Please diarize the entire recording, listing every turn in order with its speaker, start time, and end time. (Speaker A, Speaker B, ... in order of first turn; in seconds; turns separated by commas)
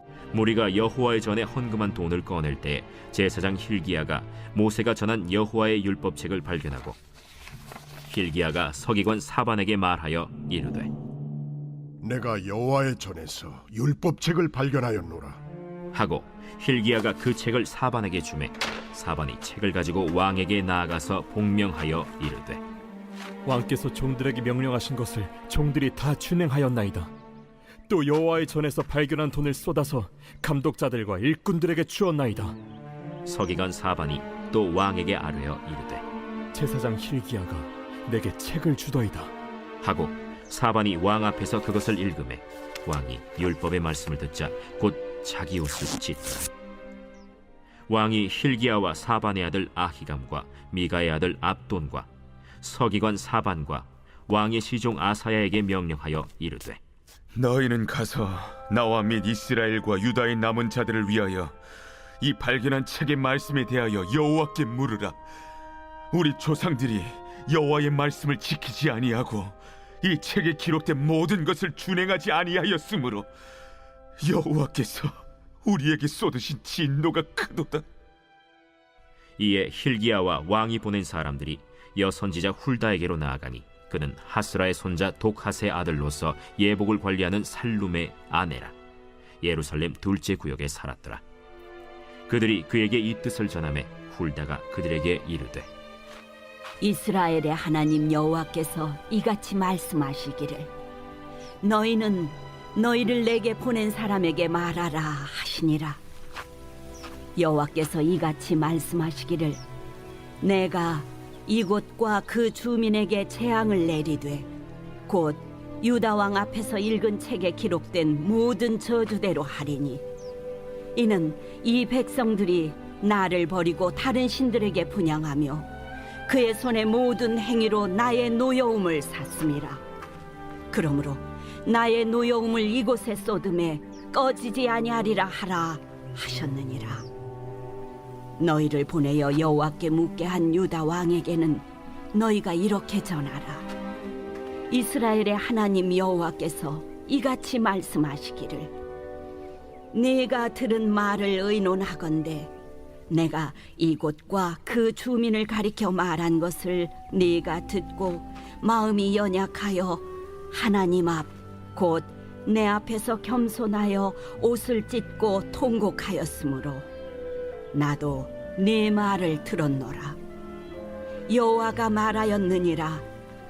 Speaker A: 0.3-7.0, Speaker A: 8.1-10.9, Speaker B: 12.0-15.4, Speaker A: 15.9-22.6, Speaker C: 23.4-27.1, Speaker C: 27.9-32.6, Speaker A: 33.2-36.0, Speaker C: 36.5-39.3, Speaker A: 39.8-46.5, Speaker A: 47.9-52.1, Speaker A: 52.6-56.8, Speaker D: 57.3-61.5, Speaker D: 62.2-65.2, Speaker D: 66.1-73.3, Speaker D: 74.2-77.8, Speaker A: 79.4-88.7, Speaker A: 89.4-91.2, Speaker A: 92.3-95.7, Speaker E: 96.8-100.7, Speaker E: 101.6-106.0, Speaker E: 107.3-109.6, Speaker E: 110.4-114.5, Speaker E: 115.1-120.0, Speaker E: 120.9-125.7, Speaker E: 126.3-129.8, Speaker E: 130.7-137.1, Speaker E: 138.4-143.7, Speaker E: 144.7-148.7, Speaker E: 149.9-152.5, Speaker E: 153.1-166.9, Speaker E: 167.7-170.2, Speaker E: 171.3-173.1